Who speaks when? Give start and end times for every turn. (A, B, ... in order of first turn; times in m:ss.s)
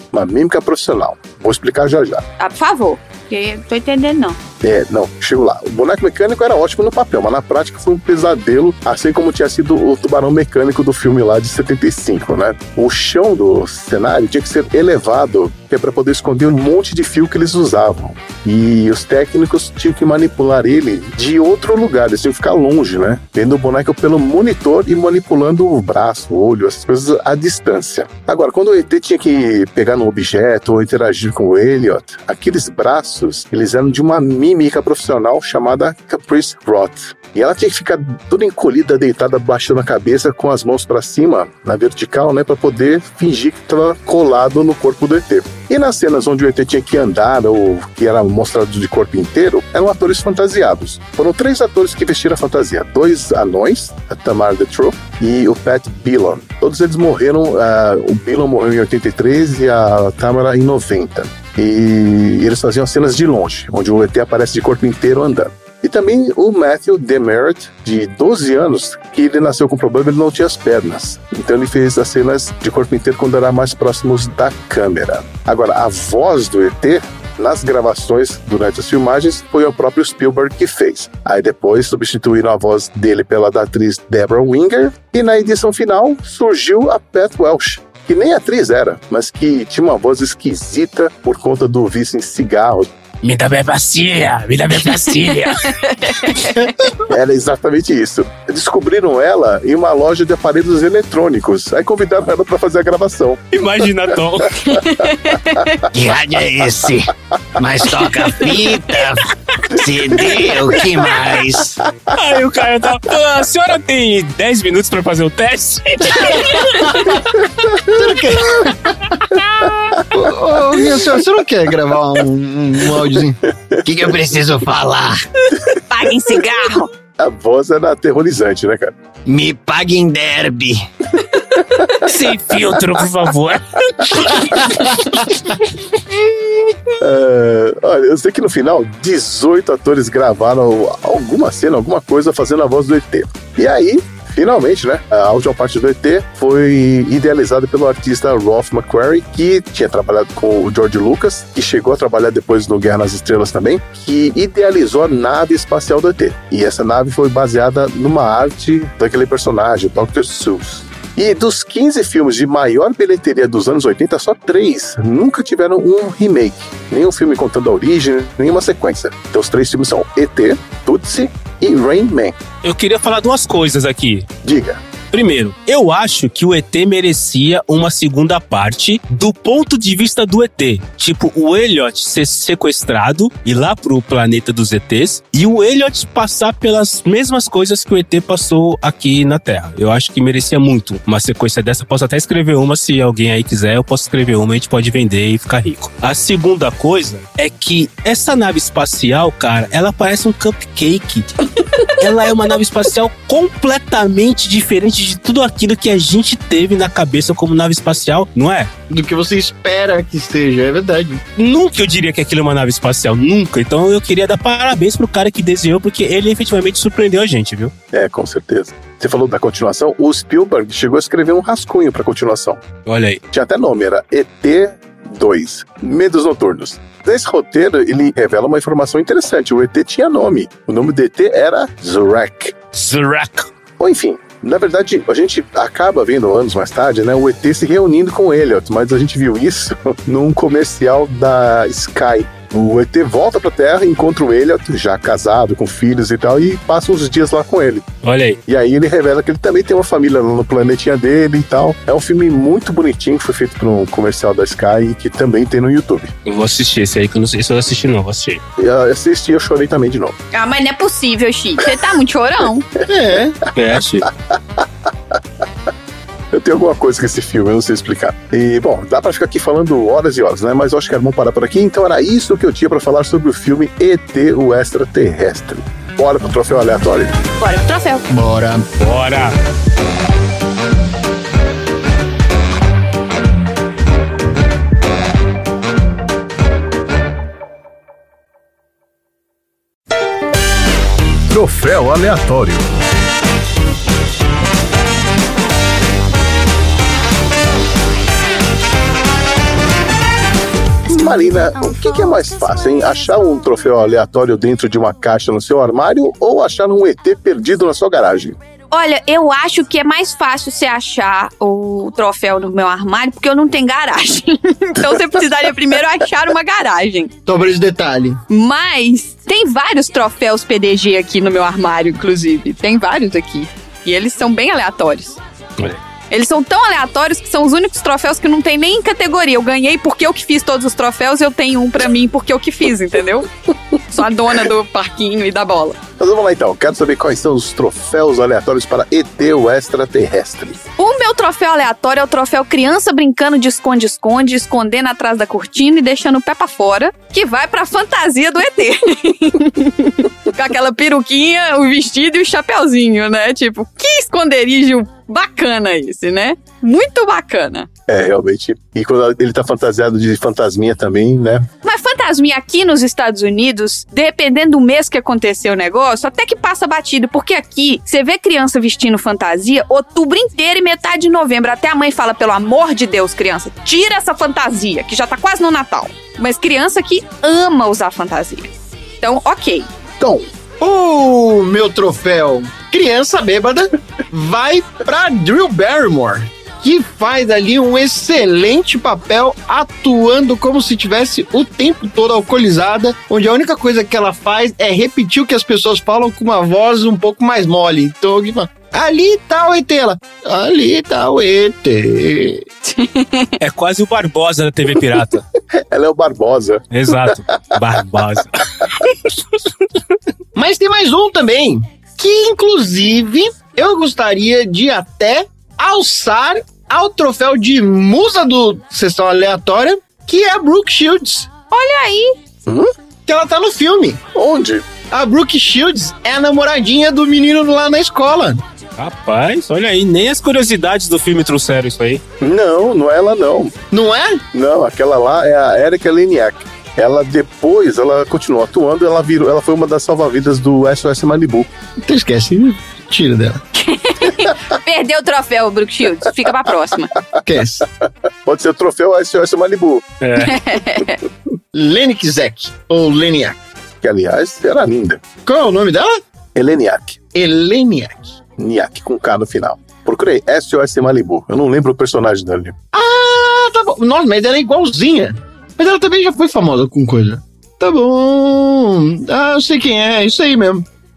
0:00.1-0:02.3 A
0:02.4-0:04.4 B
0:04.6-1:32.9 A
1:33.2-1:35.8 C
1:35.8-1:36.6 B
1:37.0-1:43.4 A
1:43.5-1:44.8 C
1:44.7-1:45.8 B
1:46.0-1:49.2 D
1:49.8-1:51.8 D
1:50.1-1:50.6 A
1:52.1-1:57.2 C
1:57.9-1:58.9 D
2:00.0-2:01.2 A
2:00.1-2:05.2 D
2:03.6-2:03.9 A
2:05.8-2:06.9 B
2:07.2-2:09.0 A
2:09.3-2:10.8 D
2:12.0-2:14.5 C
2:17.0-2:52.4 A
2:52.6-2:54.3 C
2:54.4-2:54.8 A
2:55.1-3:28.7 C
3:28.9-3:31.2 D
3:31.4-3:37.7 C
3:37.9-3:42.6 A
3:42.9-3:43.2 C
3:43.3-3:52.6 A
3:52.7-3:53.5 C
3:53.8-4:07.9 A
4:08.0-4:08.4 C
4:08.5-4:16.1 A
4:16.3-4:18.4 C
4:18.6-4:20.2 A
4:20.3-4:22.7 B
4:22.9-4:23.4 D
4:23.6-4:24.1 C
4:24.0-4:25.2 A
4:26.3-4:37.2 A
4:37.4-4:38.1 B
4:38.1-4:38.7 D
4:38.8-4:39.3 C
4:51.3-4:52.7 A
5:00.9-5:08.4 A
5:08.7-5:17.1 B
5:17.3-5:18.2 D
5:18.3-5:25.2 B
5:26.1-5:33.3 B
5:33.9-5:35.8 B
5:36.0-5:40.6 A
5:40.8-5:57.7 B
5:57.9-6:01.5 A
6:01.6-6:18.5 B
6:19.0-6:19.7 B
6:20.0-6:20.3 A
6:20.6-6:42.4 D
6:42.6-6:43.3 B
6:43.4-6:45.2 C
6:45.5-6:47.6 A
6:46.7-6:49.7 C
6:50.4-7:01.3 D
7:01.5-7:02.1 B
7:03.1-7:04.0 D
7:04.1-7:04.7 A
7:04.9-7:08.4 D
7:08.8-7:12.0 C
7:12.2-7:13.6 A
7:13.7-7:14.2 D
7:14.3-7:21.5 A
7:21.8-7:23.4 D
7:23.6-7:26.9 B
7:27.2-7:27.7 D
7:27.8-7:29.9 A
7:30.0-7:30.4 C
7:30.2-7:31.0 B
7:31.5-7:33.4 D
7:33.8-7:35.0 A
7:35.2-7:36.0 D
7:36.4-7:37.0 A
7:37.1-7:38.2 D
7:38.4-7:42.6 A
7:42.7-7:50.6 D